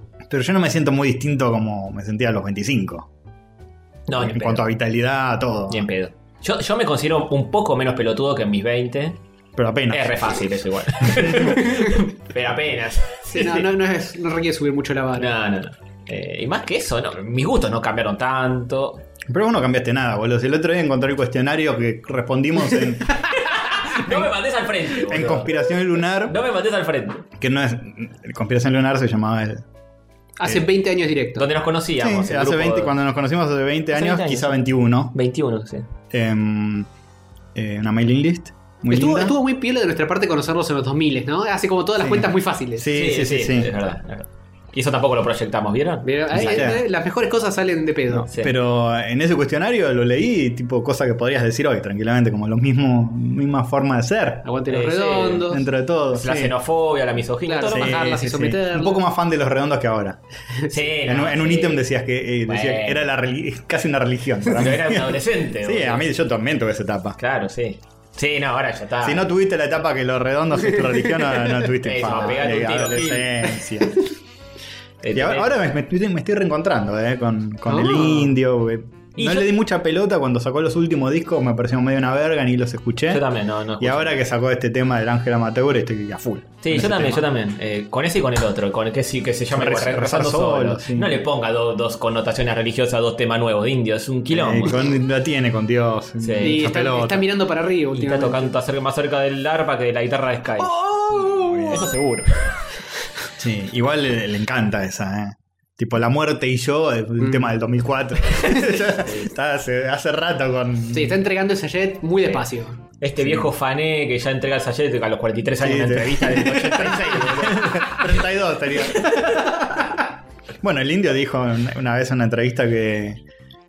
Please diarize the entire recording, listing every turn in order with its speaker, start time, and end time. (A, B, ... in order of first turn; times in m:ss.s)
0:00.3-0:03.1 A
0:04.1-0:04.7 B
0:04.2-0:05.9 A
0:05.7-0:09.2 B
0:09.6-0:10.2 A
0:09.9-0:13.7 B
0:11.2-0:11.5 A
0:11.6-0:11.9 C
0:13.3-0:15.3 C
0:15.2-0:19.0 B
0:19.3-0:23.3 A
0:23.2-0:27.2 B
0:23.9-0:24.3 A
0:25.0-0:26.4 A
0:27.4-0:29.6 A
0:30.4-0:31.5 C
0:31.4-0:32.9 B
0:32.0-0:35.1 A
0:33.9-0:34.6 B
0:35.1-0:35.9 B
0:36.1-0:36.9 A
0:37.5-0:39.4 A
0:38.9-0:42.9 C
0:42.0-0:43.7 A
0:42.9-0:46.7 B
0:46.0-0:48.3 C
0:46.3-0:46.8 A
0:48.1-0:54.4 A
0:48.3-0:48.5 B
0:54.4-0:55.6 C
0:54.7-0:55.5 B
0:55.4-0:56.5 A
0:56.1-0:58.2 B
0:57.4-0:59.0 C
0:57.7-1:00.2 A
1:00.7-1:01.9 B
1:01.0-1:07.2 A
1:02.4-1:03.0 B
1:04.5-1:06.0 B
1:07.2-1:09.2 B
1:09.0-1:14.0 A
1:11.8-1:13.5 B
1:15.0-1:15.5 B
1:15.1-1:23.2 A
1:17.7-1:18.3 C
1:19.2-1:19.5 B
1:23.1-1:24.2 B
1:23.8-1:27.2 A
1:26.6-1:34.8 B
1:29.5-1:31.2 A
1:34.3-1:37.2 A
1:36.2-1:36.6 B
1:36.4-1:38.5 C
1:37.9-1:42.6 B
1:40.7-1:41.9 C
1:41.1-1:41.9 A
1:43.4-1:51.2 A
1:47.2-1:47.5 C
1:48.9-1:49.3 B
1:50.9-1:52.8 C
1:53.0-1:58.2 B
1:53.2-1:53.5 A
1:55.6-2:00.0 A
1:59.0-1:59.3 B
2:00.6-2:03.2 A